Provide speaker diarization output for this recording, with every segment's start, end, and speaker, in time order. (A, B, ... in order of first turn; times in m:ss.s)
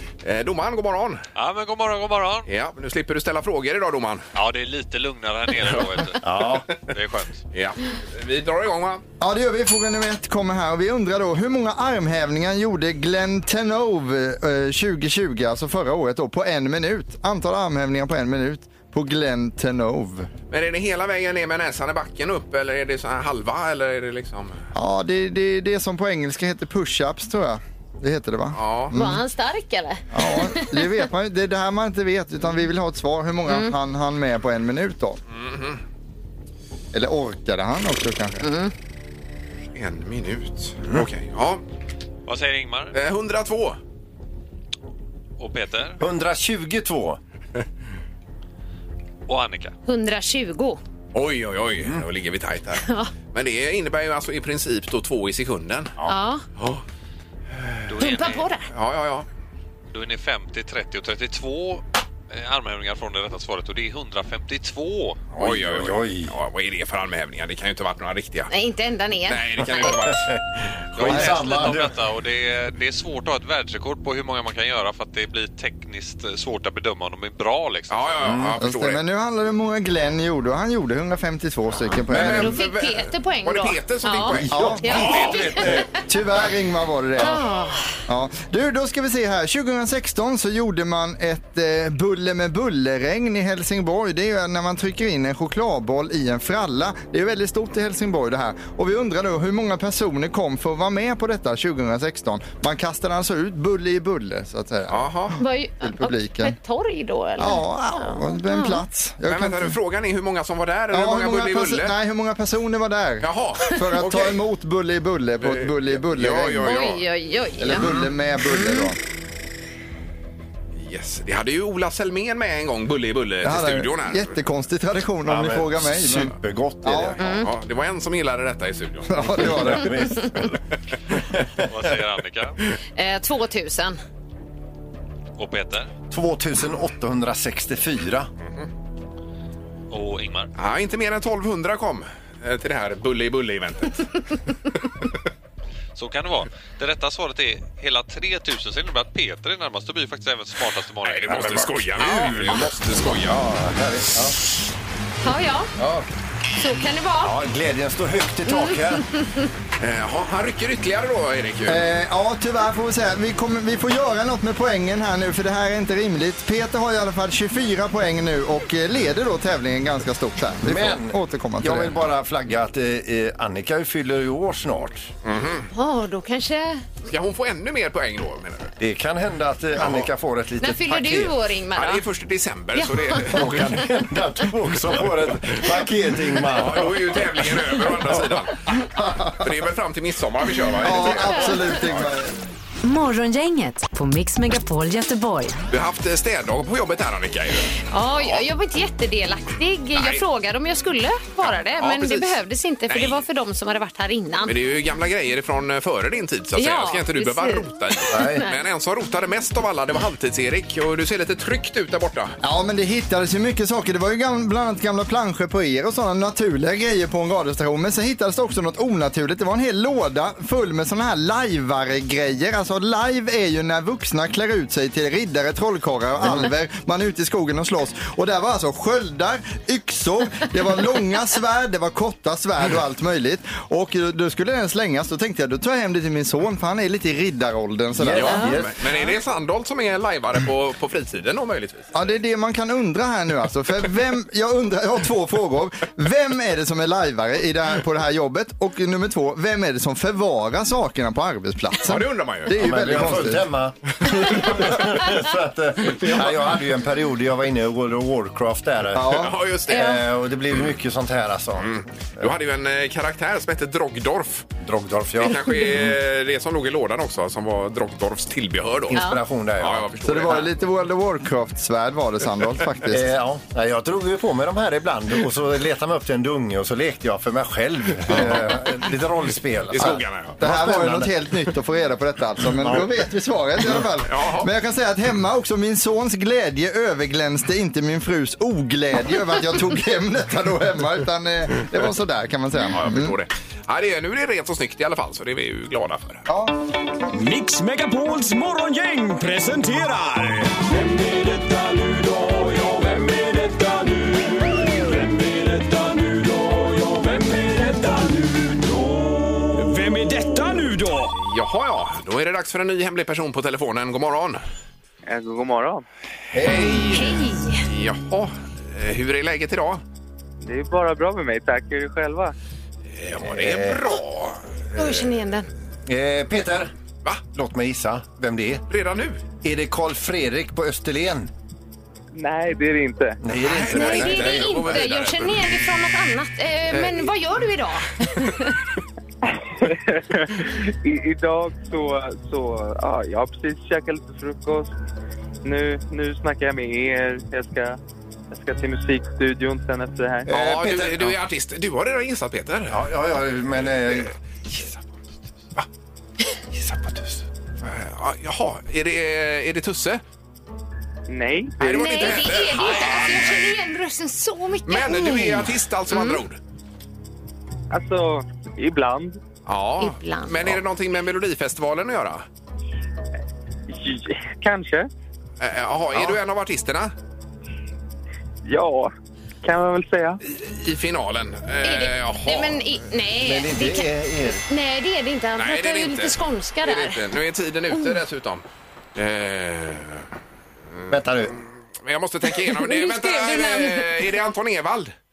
0:00.2-0:01.2 A
0:01.4-0:02.5 B
0:02.5-0:04.3 A
0:04.4-0:07.4 B
0:06.2-0:06.8 C
0:07.5-0:09.0 A
0:09.2-0:20.3 D
0:20.5-0:24.6 A
0:24.7-0:29.2 D
0:28.6-0:28.9 A
0:28.9-0:31.0 E
0:30.1-0:35.2 D
0:33.5-0:33.7 E
0:35.4-0:35.8 A
0:36.9-0:38.4 D
0:38.4-0:38.7 E
0:39.8-0:41.6 A
0:42.3-0:43.0 B
0:42.9-0:43.8 A
0:45.4-0:46.0 B
0:46.0-0:47.2 C
0:49.3-0:49.7 B
0:49.9-0:50.8 E
0:51.1-0:56.0 A
0:52.8-0:53.1 E
0:56.1-0:56.4 E
0:57.9-0:58.5 B
0:58.0-0:58.7 E
0:58.7-0:59.3 A
0:59.9-1:05.3 B
1:05.4-1:06.3 C
1:05.4-1:08.5 A
1:08.5-1:09.9 E
1:09.3-1:10.4 A
1:09.8-1:10.4 C
1:10.9-1:11.3 A
1:10.9-1:12.0 C
1:11.0-1:18.2 B
1:17.9-1:19.0 A
1:18.2-1:18.6 C
1:18.6-1:22.6 D
1:22.1-1:22.5 C
1:22.1-1:25.7 A
1:22.2-1:25.8 E
1:24.3-1:25.9 C
1:24.5-1:25.1 D
1:25.8-1:27.4 D
1:27.2-1:27.9 E
1:28.1-1:45.1 D
1:44.9-1:45.4 A
1:45.4-1:48.8 E
1:45.8-1:46.6 D
1:47.4-1:49.8 D
1:49.3-1:51.9 A
1:50.9-1:56.8 D
1:53.2-1:54.4 A
1:55.4-1:57.0 A
1:56.7-1:58.9 E
1:57.6-1:59.0 D
2:00.8-2:04.3 A
2:03.4-2:07.2 D
2:05.3-2:07.2 C
2:07.2-2:07.5 E
2:07.2-2:09.7 A
2:09.1-2:10.0 D
2:09.2-2:10.6 C
2:11.1-2:11.7 C
2:11.7-2:12.6 B
2:13.0-2:14.0 E
2:15.4-2:15.9 B
2:16.1-2:18.3 C
2:19.9-2:20.5 B
2:20.6-2:24.3 A
2:26.0-2:31.7 B
2:31.0-2:33.4 A
2:31.4-2:34.4 C
2:35.2-2:35.7 E
2:36.6-2:37.4 E
2:37.2-2:39.1 C
2:38.5-2:39.5 E
2:39.8-2:41.8 A
2:41.7-2:52.0 D
2:50.6-2:55.1 C
2:55.2-2:55.7 A
2:55.7-2:56.9 E
2:57.0-2:58.7 A
2:58.8-3:01.3 C
2:59.8-3:00.1 A
3:00.6-3:02.0 E
3:01.7-3:03.8 A
3:02.8-3:03.4 E
3:03.3-3:08.4 C
3:06.5-3:08.7 A
3:09.3-3:12.1 A
3:10.8-3:12.3 D
3:12.8-3:15.6 F
3:15.7-3:18.4 A
3:17.9-3:24.5 E
3:20.0-3:20.2 A
3:21.7-3:22.4 A
3:22.9-3:23.2 A
3:24.5-3:32.4 A
3:26.6-3:28.5 E
3:28.1-3:28.4 C
3:32.4-3:58.6 D
3:58.0-3:58.8 C
3:58.1-4:01.9 A
4:01.9-4:13.5 D
4:11.8-4:12.6 A
4:12.6-4:22.3 C
4:18.9-4:19.3 D
4:19.1-4:20.0 A
4:19.7-4:20.0 E
4:21.6-4:24.5 A
4:24.6-4:26.0 C
4:25.2-4:29.0 A
4:28.9-4:29.9 C
4:28.9-4:29.2 E
4:29.6-4:30.5 A
4:30.0-4:33.1 D
4:32.9-4:41.1 C
4:38.1-4:38.4 D
4:38.1-4:38.5 A
4:39.7-4:40.4 A
4:40.4-4:53.2 D
4:42.6-4:42.9 C
4:44.1-4:44.5 A
4:52.7-4:56.2 A
4:56.3-4:56.6 D
4:57.1-5:11.2 G
5:11.2-5:14.4 A
5:15.1-5:15.8 H
5:16.3-5:17.0 C
5:16.4-5:19.8 A
5:16.8-5:17.6 E
5:20.4-5:22.4 H
5:22.9-5:24.5 A
5:23.2-5:24.0 C
5:24.8-5:25.5 E
5:25.9-5:26.7 C
5:27.3-5:28.6 C
5:28.7-5:29.2 A
5:29.4-5:31.3 C
5:32.1-5:33.2 H
5:33.2-5:34.8 C
5:33.3-5:35.5 A
5:33.7-5:38.6 E
5:36.7-5:37.1 A
5:39.4-5:44.7 H
5:45.4-5:47.8 H
5:48.3-5:50.3 H
5:50.3-5:51.2 C
5:50.3-5:52.9 A
5:52.7-5:54.8 C
5:56.5-5:57.2 C
5:57.6-6:00.0 A
6:01.1-6:02.0 H
6:01.6-6:03.4 A
6:01.7-6:06.2 E
6:04.7-6:06.4 A
6:07.7-6:09.2 H
6:09.5-6:12.3 A
6:09.8-6:10.4 E
6:13.7-6:14.9 H
6:15.4-6:16.9 A
6:18.4-6:18.9 H
6:19.4-6:20.2 H
6:20.2-6:22.6 A
6:21.6-6:27.0 E
6:23.2-6:24.5 C
6:25.4-6:28.4 A
6:27.7-6:28.0 E
6:29.0-6:30.1 A
6:30.9-6:31.4 C
6:31.8-6:34.9 A
6:32.4-6:33.9 E